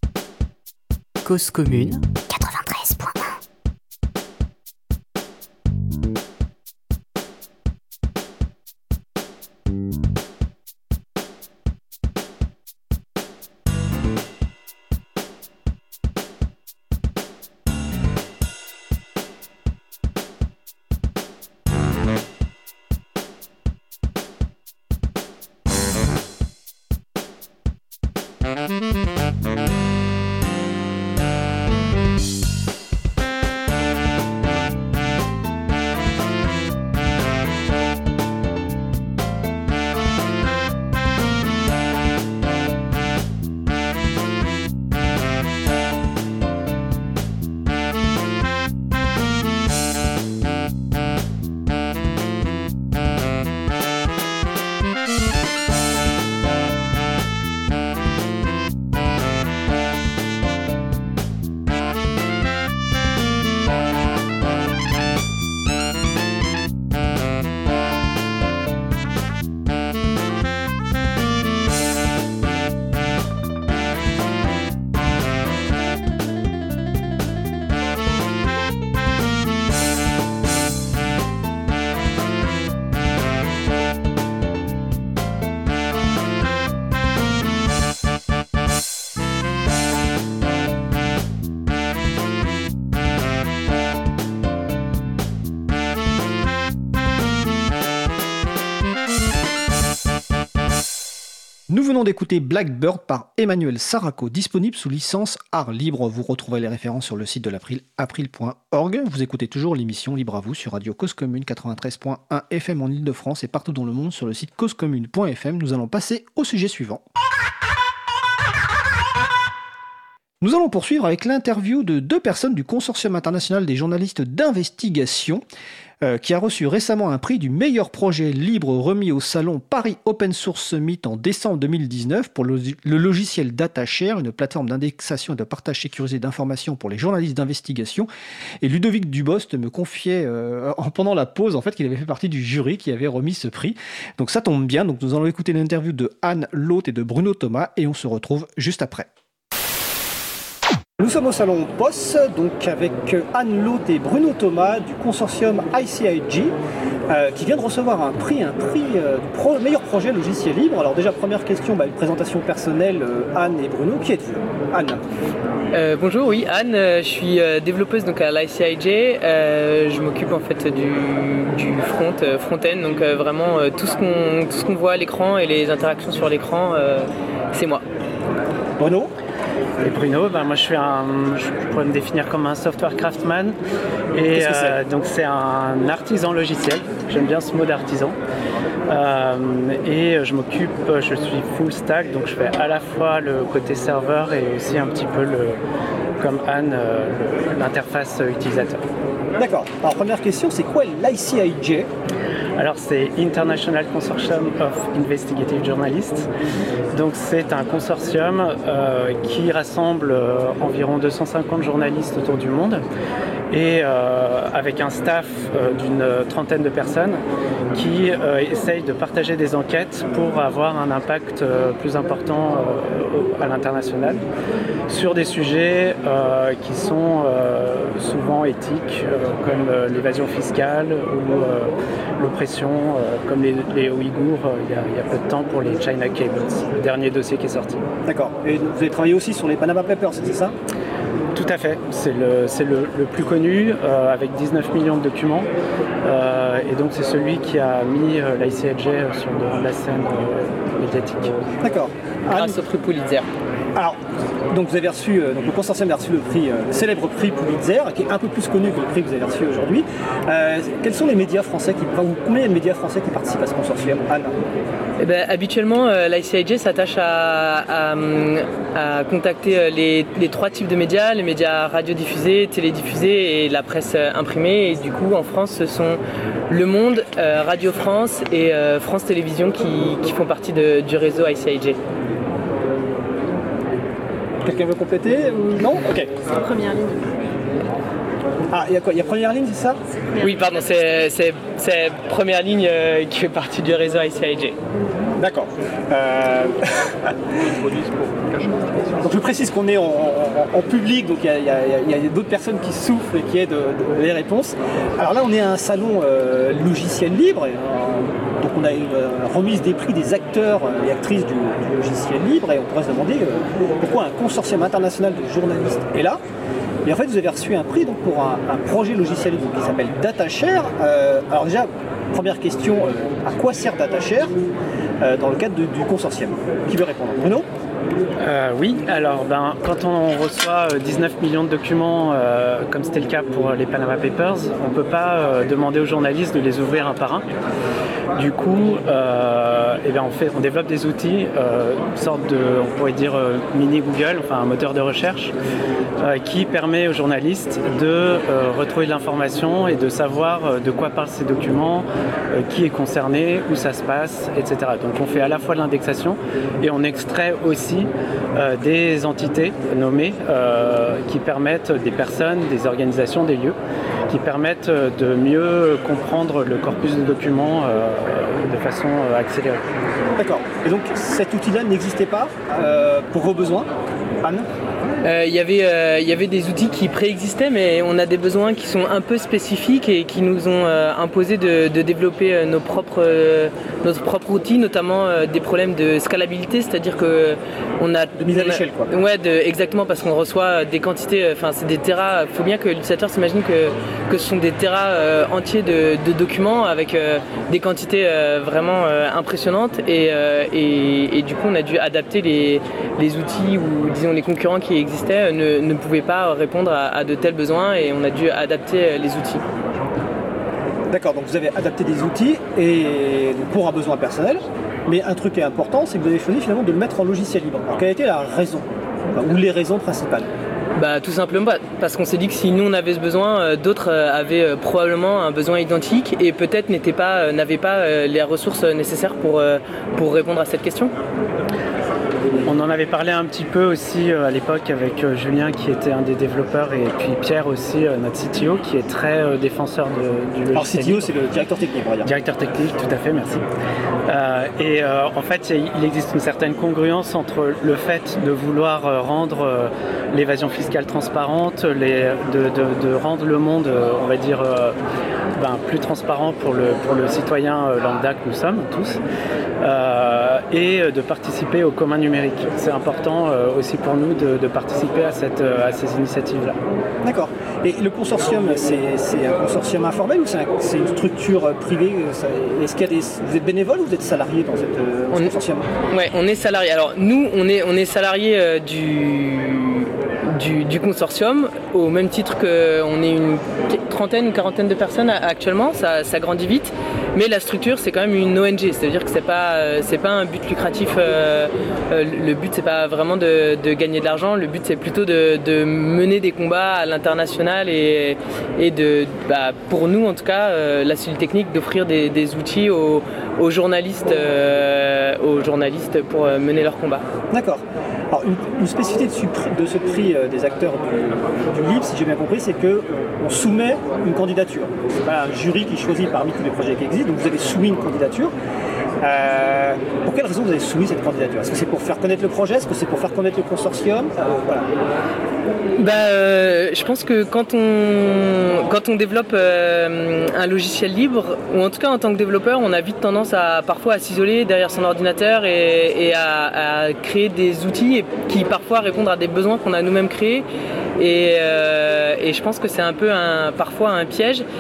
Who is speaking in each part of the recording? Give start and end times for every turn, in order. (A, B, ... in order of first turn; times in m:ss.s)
0:01.2-0:03.4 A
1:41.7-1:57.0 B
2:00.4-2:05.4 B
2:06.0-2:18.1 B
2:18.6-2:29.1 B
2:31.0-2:36.6 B
2:37.1-2:45.0 B
2:45.7-2:57.8 C
2:58.8-2:59.1 B
2:59.8-3:03.6 D
3:04.1-3:08.2 D
3:04.3-3:04.8 B
3:08.9-3:15.6 D
3:16.2-3:18.8 D
3:19.4-3:21.9 B
3:22.6-3:26.3 D
3:26.9-3:32.8 D
3:33.5-3:44.2 D
3:44.9-3:57.8 D
3:58.1-4:00.6 B
4:01.4-4:05.5 D
4:06.0-4:11.5 D
4:11.6-4:12.6 B
4:12.3-4:13.3 C
4:14.5-4:24.4 B
4:25.0-4:41.8 C
4:44.4-4:46.1 B
4:48.5-4:49.8 B
4:50.2-4:54.6 C
4:55.2-4:57.2 B
4:59.0-5:16.2 B
5:16.8-5:24.4 B
5:25.0-5:27.5 B
5:28.2-5:37.2 D
5:38.2-5:45.3 D
5:46.0-6:03.6 D
6:04.1-6:09.6 D
6:10.2-6:13.7 B
6:15.0-6:49.4 C
6:28.2-6:28.9 B
6:50.9-7:00.3 B
7:00.8-7:10.9 C
7:12.5-7:21.2 D
7:20.5-7:22.1 B
7:22.0-7:23.4 D
7:24.1-7:34.8 D
7:35.4-7:39.0 D
7:39.6-7:46.6 D
7:47.0-7:55.7 B
7:55.9-8:27.0 C
8:27.3-8:38.3 B
8:39.0-8:44.7 B
8:45.8-9:00.5 C
9:01.0-9:04.4 C